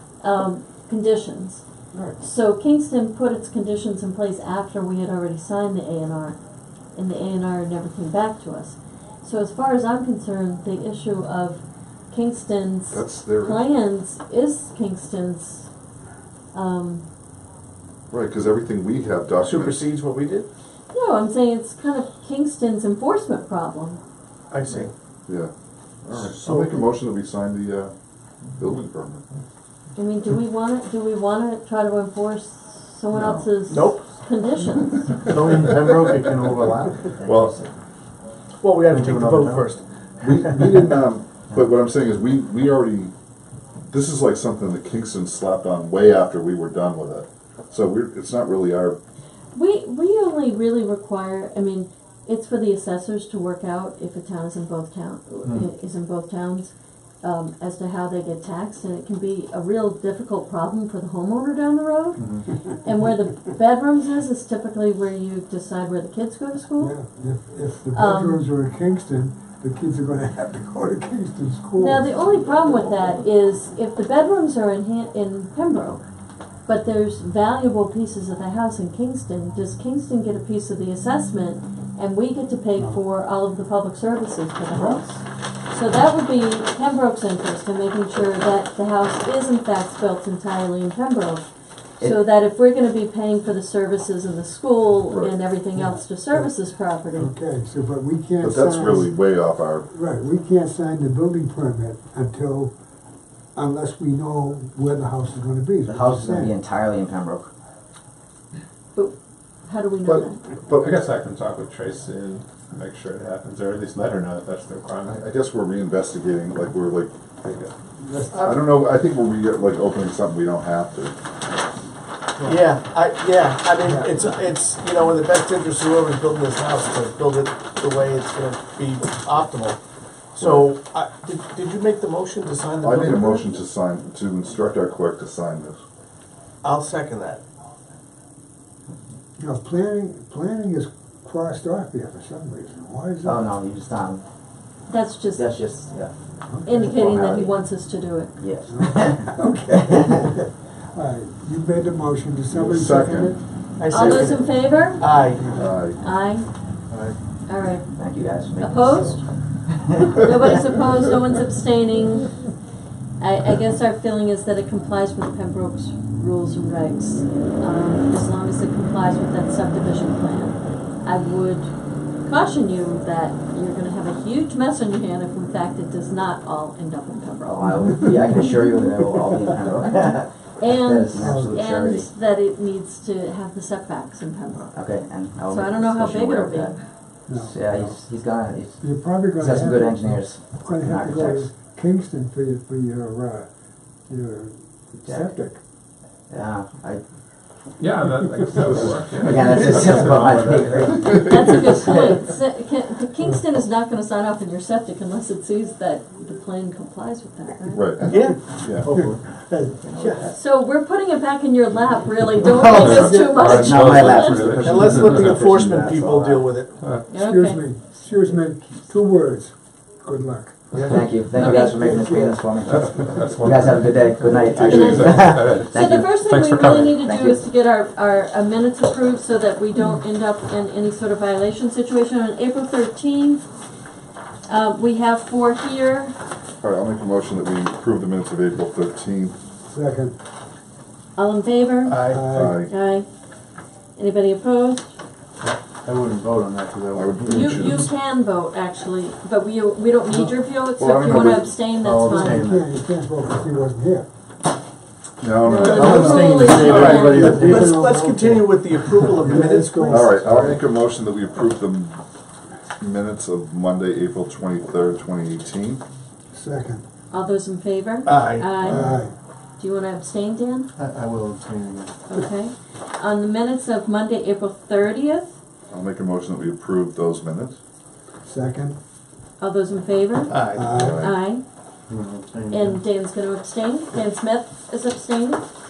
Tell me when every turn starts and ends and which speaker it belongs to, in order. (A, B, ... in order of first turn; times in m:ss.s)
0:00.2-0:01.6 A
0:02.2-0:06.4 A
0:07.0-0:15.7 A
0:12.9-0:13.6 B
0:16.5-0:17.0 A
0:18.1-0:19.9 B
0:19.4-0:20.5 C
0:20.9-0:24.0 A
0:24.5-0:24.9 C
0:26.0-0:27.9 B
0:26.3-0:26.8 C
0:26.4-0:26.8 D
0:28.6-0:29.3 B
0:30.0-0:35.2 A
0:33.7-0:34.0 C
0:35.3-0:37.4 D
0:35.6-0:36.1 B
0:37.2-0:37.6 B
0:38.6-0:39.8 C
0:38.9-0:39.7 D
0:40.2-0:43.1 B
0:43.9-0:49.0 B
0:49.5-1:07.0 A
1:06.8-1:12.1 E
1:07.9-1:08.4 A
1:11.8-1:16.0 A
1:16.7-1:31.5 A
1:24.7-1:25.0 E
1:32.0-1:32.3 F
1:32.0-1:37.3 A
1:35.1-1:35.4 B
1:35.7-1:36.5 E
1:37.1-1:39.2 E
1:38.4-1:39.9 B
1:39.9-1:42.7 E
1:43.6-1:46.5 E
1:45.9-1:47.5 F
1:49.0-1:50.4 A
1:50.0-1:50.9 B
1:50.7-1:55.2 G
1:55.0-1:57.1 B
1:58.0-1:58.5 E
1:58.3-1:58.6 C
1:58.4-2:01.2 B
2:02.4-2:09.8 C
2:03.8-2:04.2 E
2:10.4-2:13.5 C
2:10.4-2:10.7 B
2:12.8-2:15.8 B
2:16.6-2:17.4 C
2:19.4-2:23.4 E
2:23.2-2:24.2 F
2:24.9-2:25.7 A
2:25.4-2:26.1 F
2:26.5-2:26.8 E
2:26.6-2:28.4 A
2:26.7-2:27.7 F
2:28.4-2:29.3 F
2:28.7-2:33.4 E
2:29.9-2:30.2 F
2:32.5-2:33.4 B
2:33.8-2:35.5 C
2:33.9-2:35.3 A
2:35.4-2:35.7 E
2:35.5-2:36.0 B
2:36.0-2:36.5 A
2:36.9-2:37.2 D
2:37.5-2:37.9 A
2:37.9-2:40.6 F
2:38.6-2:39.2 A
2:40.0-2:42.5 A
2:43.2-2:51.7 A
2:52.2-2:58.4 A
2:57.4-3:02.1 F
3:00.6-3:04.8 A
3:01.2-3:01.6 E
3:04.7-3:06.8 F
3:05.5-3:06.8 A
3:07.3-3:08.0 E
3:07.3-3:11.5 F
3:08.8-3:13.5 E
3:14.1-3:15.6 E
3:15.0-3:15.3 F
3:16.3-3:17.0 F
3:17.8-3:20.9 G
3:19.2-3:22.2 F
3:21.1-3:27.9 A
3:21.3-3:21.6 B
3:27.7-3:28.9 B
3:28.1-3:28.4 C
3:28.7-3:29.2 D
3:28.7-3:30.3 E
3:29.8-3:30.4 F
3:30.3-3:34.5 A
3:32.7-3:35.5 G
3:33.5-3:34.8 F
3:34.6-3:36.8 C
3:34.8-3:36.6 D
3:36.8-3:37.0 G
3:37.1-3:37.6 A
3:37.1-3:43.3 E
3:40.8-3:46.2 F
3:42.7-3:46.9 G
3:44.5-3:53.4 A
3:44.6-3:45.0 B
3:46.8-3:47.4 F
3:54.5-3:56.2 A
3:56.6-3:59.4 B
3:59.6-4:00.2 E
4:01.2-4:02.0 A
4:01.9-4:02.3 D
4:02.0-4:02.6 E
4:02.3-4:02.7 B
4:02.7-4:03.1 A
4:04.0-4:05.0 A
4:05.5-4:07.9 D
4:06.9-4:07.9 B
4:07.3-4:12.5 A
4:10.8-4:11.5 B
4:11.2-4:12.7 D
4:12.1-4:14.1 E
4:15.2-4:17.5 B
4:15.4-4:17.5 A
4:15.6-4:17.7 D
4:16.7-4:20.2 C
4:17.4-4:20.5 E
4:19.9-4:22.0 B
4:20.3-4:20.6 D
4:22.8-4:25.8 B
4:26.3-4:26.8 E
4:27.1-4:29.1 A
4:28.0-4:28.5 C
4:28.6-4:29.1 E
4:29.6-4:30.7 A
4:30.8-4:31.9 D
4:32.1-4:35.3 A
4:35.7-4:37.6 B
4:38.2-4:38.8 E
4:39.4-4:41.4 A
4:40.3-4:40.7 C
4:40.5-4:41.0 E
4:40.7-4:41.2 B
4:41.9-4:42.8 D
4:42.5-4:45.5 A